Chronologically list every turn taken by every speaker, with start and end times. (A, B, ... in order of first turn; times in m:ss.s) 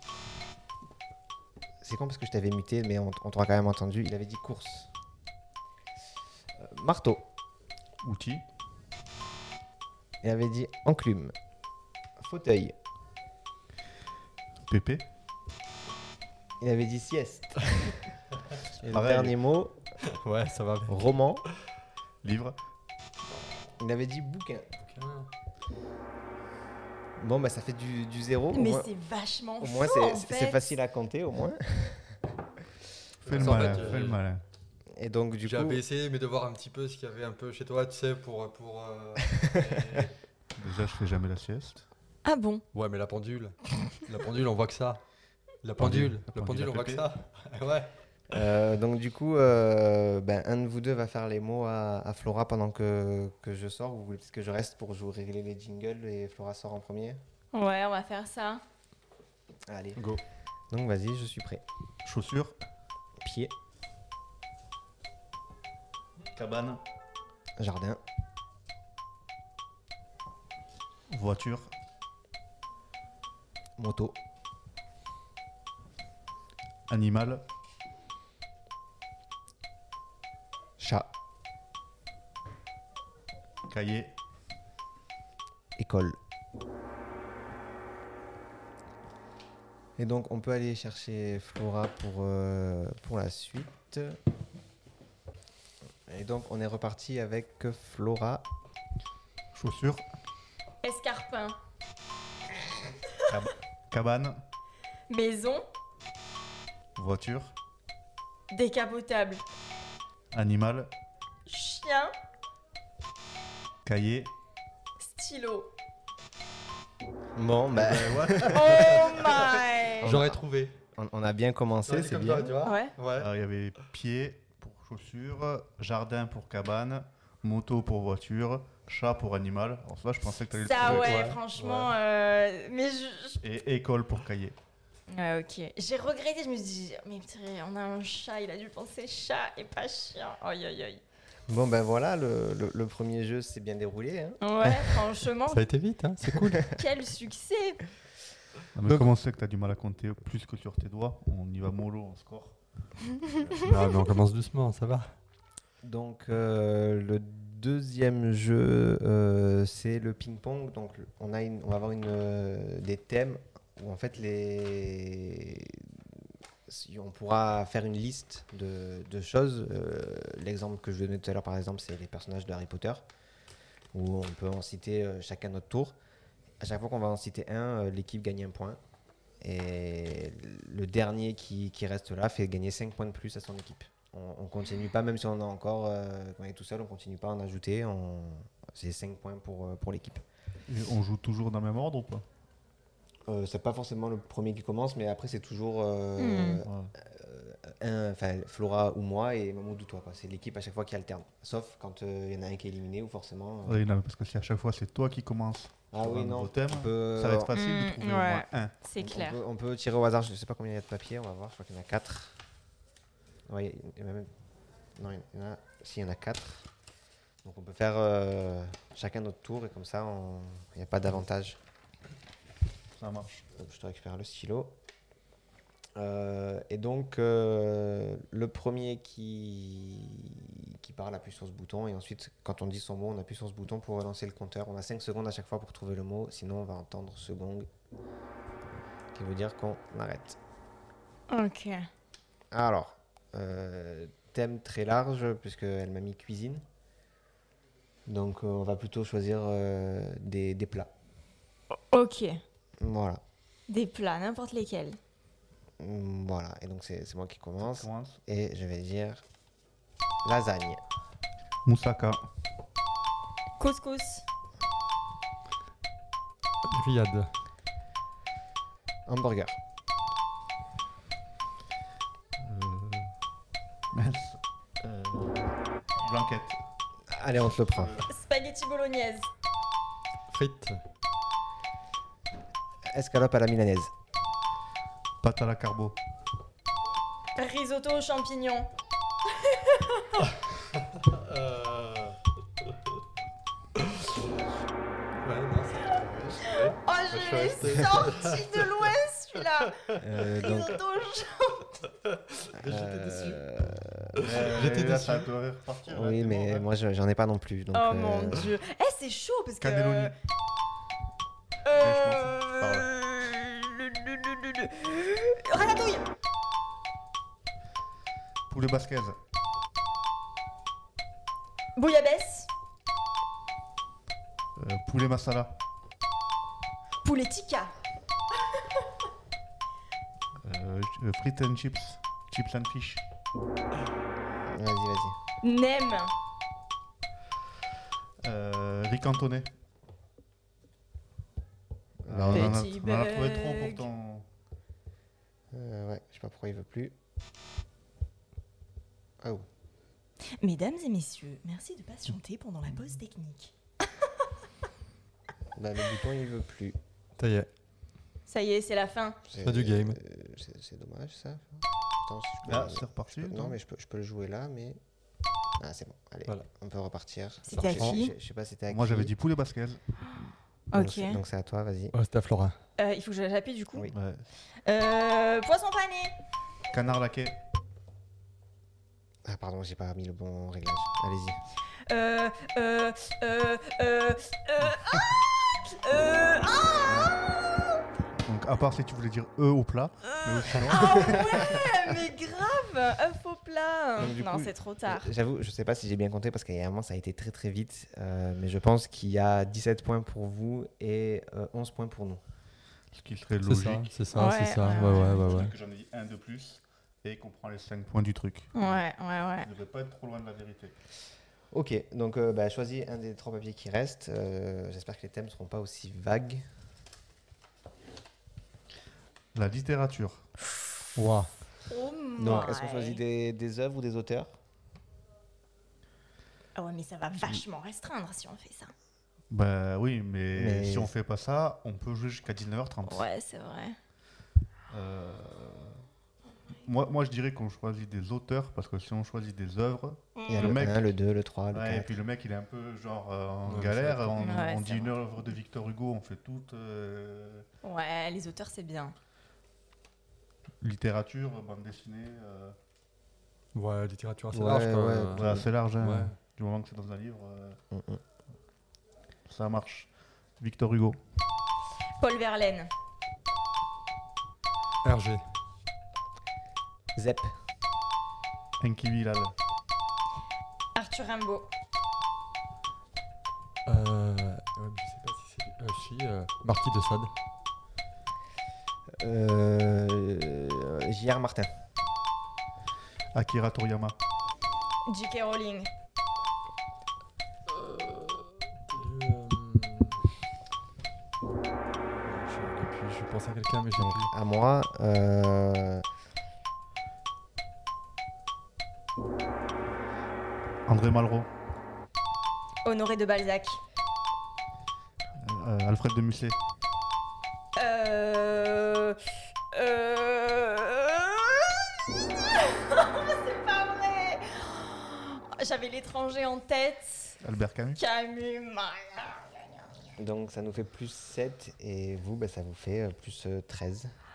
0:01.8-0:04.9 A
0:06.6-0:07.3 A
0:08.0-0:08.4 B
0:10.2-0:11.3 A
0:12.2-0:12.8 A
0:14.7-0:15.0 B
0:16.6-0:18.0 A
0:18.8-0:19.8 A
0:18.9-0:19.3 B
0:20.0-0:21.1 C
0:20.9-0:21.4 A
0:22.2-0:22.6 B
0:23.2-0:23.7 C
0:23.8-0:24.7 A
0:24.8-0:25.3 C
0:27.2-0:28.9 A
0:28.5-0:30.7 D
0:29.6-0:32.2 A
0:33.2-0:34.2 C
0:33.2-0:34.4 B
0:33.4-0:34.0 A
0:34.9-0:35.8 A
0:35.4-0:40.1 C
0:39.3-0:40.1 A
0:40.5-0:41.8 B
0:42.2-0:42.6 D
0:42.7-0:45.0 C
0:45.6-0:47.9 C
0:45.8-0:47.0 B
0:48.3-0:57.2 A
0:57.5-0:58.6 D
0:59.7-1:00.0 A
1:00.0-1:00.2 C
1:00.7-1:01.6 A
1:02.0-1:02.5 B
1:03.2-1:03.5 A
1:06.3-1:06.8 B
1:07.6-1:08.0 A
1:11.1-1:11.7 B
1:13.8-1:14.2 A
1:16.9-1:17.4 B
1:20.8-1:21.1 A
1:23.7-1:24.2 B
1:25.8-1:26.2 A
1:30.0-1:34.2 A
1:36.1-1:38.4 A
1:39.5-1:40.0 B
1:40.8-1:41.6 D
1:43.2-1:44.4 B
1:45.1-1:45.6 D
1:47.0-1:47.5 B
1:48.5-1:49.4 D
1:50.3-1:50.9 B
1:51.5-1:52.1 D
1:53.8-1:54.3 B
1:55.0-1:55.7 D
1:57.4-1:59.1 A
1:57.7-2:00.8 C
1:58.4-2:00.2 D
2:00.0-2:02.6 A
2:01.9-2:03.3 C
2:02.6-2:02.9 D
2:03.2-2:11.1 B
2:10.5-2:13.4 D
2:10.8-2:12.0 C
2:13.4-2:14.6 B
2:15.1-2:21.0 D
2:21.5-2:24.9 A
2:24.4-2:25.6 D
2:25.5-2:26.7 C
2:26.7-2:27.8 D
2:28.7-2:32.6 B
2:33.5-2:34.0 D
2:33.6-2:35.1 C
2:35.8-2:46.1 A
2:46.7-2:53.0 A
2:53.9-2:56.0 A
2:56.6-2:58.8 A
2:59.4-3:10.2 A
3:10.7-3:12.2 B
3:13.3-3:23.8 A
3:16.2-3:16.6 D
3:16.6-3:16.9 B
3:23.6-3:28.7 B
3:25.9-3:27.5 A
3:27.5-3:29.4 D
3:29.0-3:32.4 A
3:33.5-3:34.3 A
3:35.0-3:36.7 A
3:37.4-3:41.6 A
3:43.0-3:43.3 B
3:43.5-3:44.7 A
3:46.0-3:57.7 A
3:59.1-4:00.4 A
4:01.3-4:01.9 D
4:02.5-4:06.6 A
4:08.1-4:10.9 A
4:11.7-4:12.4 D
4:12.8-4:13.2 A
4:13.7-4:15.0 D
4:15.8-4:19.2 A
4:17.6-4:18.2 B
4:20.2-4:20.8 A
4:21.6-4:22.2 B
4:23.6-4:24.2 D
4:26.7-4:27.3 C
4:29.1-4:29.6 A
4:32.4-4:33.1 B
4:33.9-4:35.4 B
4:36.0-4:36.6 B
4:37.1-4:38.0 A
4:37.7-4:38.0 B
4:38.1-4:39.3 D
4:40.3-4:40.8 C
4:42.9-4:43.9 A
4:45.2-4:46.0 B
4:47.4-4:48.7 D
4:49.3-4:50.2 D
4:50.9-4:52.2 C
4:53.8-4:54.2 C
4:55.2-4:58.8 C
4:56.0-4:56.4 B
4:56.4-5:01.8 D
5:00.0-5:00.8 A
5:02.1-5:03.5 C
5:02.6-5:04.4 A
5:04.2-5:05.3 C
5:04.2-5:06.7 B
5:05.9-5:08.5 A
5:07.7-5:10.1 D
5:09.6-5:10.1 B
5:11.6-5:16.1 D
5:11.6-5:12.9 B
5:18.5-5:19.2 B
5:21.8-5:22.5 D
5:24.6-5:25.6 B
5:27.0-5:27.7 D
5:30.4-5:33.0 B
5:34.4-5:35.2 A
5:35.4-5:36.1 D
5:38.2-5:39.5 B
5:42.0-5:42.6 A
5:42.0-5:44.3 B
5:42.3-5:43.8 D
5:45.5-5:46.9 A
5:49.2-5:49.4 A
5:50.3-5:53.5 D
5:55.5-5:56.8 A
5:57.2-5:57.5 C
5:58.3-5:59.2 D
5:59.3-6:04.8 A
5:59.4-6:00.0 C
6:02.4-6:03.6 B
6:05.6-6:09.1 A
6:07.4-6:08.1 D
6:08.7-6:10.3 B
6:10.7-6:11.2 D
6:10.7-6:11.9 A
6:11.9-6:12.6 C
6:12.8-6:13.9 D
6:13.8-6:14.1 A
6:14.6-6:16.1 D
6:16.7-6:17.4 B
6:19.2-6:21.4 A
6:21.9-6:27.8 D
6:26.9-6:27.1 B
6:28.2-6:31.6 B
6:30.1-6:35.1 D
6:30.8-6:31.6 A
6:34.0-6:42.2 A
6:42.9-6:43.9 B
6:43.4-6:45.5 C
6:44.1-6:45.2 D
6:44.6-6:48.5 B
6:48.5-6:49.5 D
6:49.4-6:50.7 B
6:51.5-6:56.4 A
6:59.3-7:00.2 B
7:01.0-7:01.3 C
7:01.7-7:03.0 D
7:02.2-7:04.3 A
7:06.6-7:08.7 D
7:09.3-7:13.1 B
7:10.3-7:10.9 A
7:12.8-7:13.8 D
7:14.7-7:15.8 B
7:16.6-7:20.9 B
7:20.2-7:20.5 D
7:20.3-7:22.0 A
7:21.5-7:27.4 B
7:23.4-7:24.3 C
7:24.2-7:25.0 D
7:27.6-7:28.9 D
7:30.6-7:32.6 B
7:33.5-7:36.1 C
7:34.3-7:35.4 A
7:35.2-7:37.6 B
7:37.7-7:38.0 A
7:39.3-7:41.0 B
7:42.0-7:42.7 D
7:44.8-7:45.2 C
7:47.0-7:47.3 A
7:48.6-7:49.3 B
7:50.7-7:51.5 D
7:53.6-7:57.1 C
7:59.0-8:01.5 A
8:03.1-8:04.0 B
8:04.9-8:05.7 D
8:07.5-8:10.1 C
8:12.0-8:14.1 C
8:13.8-8:15.8 A
8:20.7-8:21.3 B
8:22.6-8:23.6 D
8:25.2-8:26.4 B
8:27.6-8:37.2 D
8:37.2-8:37.8 B
8:37.8-8:39.8 D
8:40.0-8:43.9 A